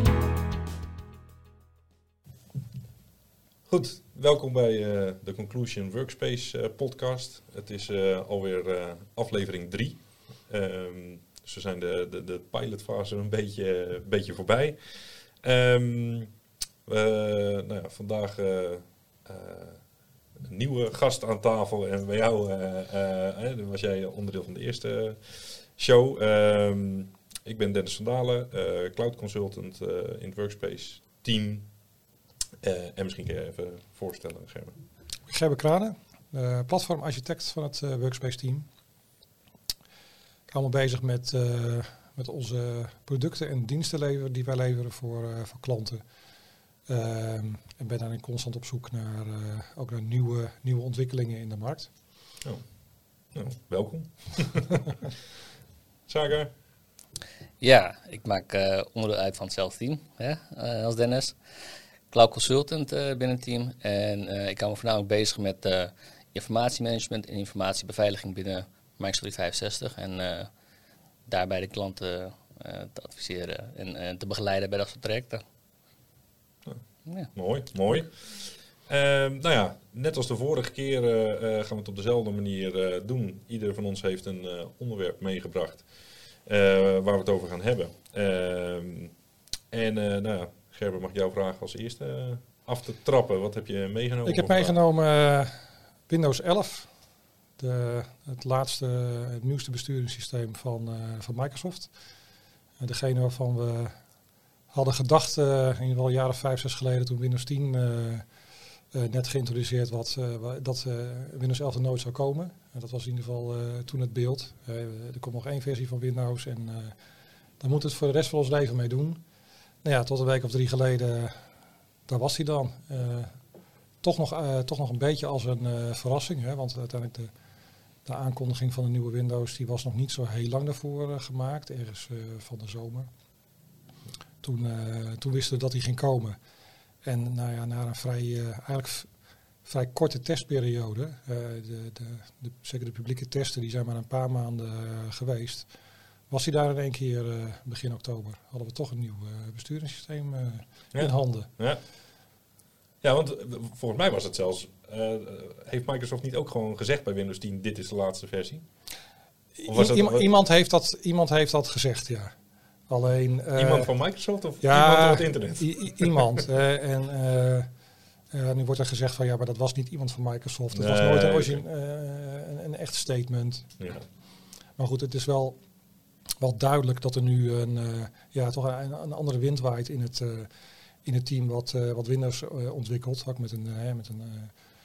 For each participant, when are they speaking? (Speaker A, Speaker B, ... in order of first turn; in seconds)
Speaker A: 3.7-16.3, 16.9-19.9, 20.4-31.7, 32.6-34.8, 52.4-52.7, 53.3-55.1, 56.1-56.5, 76.7-89.1, 89.7-94.8, 150.9-151.9, 153.0-158.7, 159.7-160.3, 163.6-166.2, 170.7-171.6, 173.8-174.1
Speaker B: 35.3-38.7, 40.5-46.0, 46.9-51.9, 94.2-119.2, 119.8-123.4, 124.0-127.3, 128.0-133.1, 134.4-136.4, 137.0-145.7, 146.3-151.5, 159.6-162.4, 162.9-164.0, 164.6-167.7, 168.3-173.8, 174.8-175.6, 176.4-180.5, 181.0-184.6
Speaker C: 57.6-61.4, 62.1-70.5, 71.3-75.4, 77.1-78.0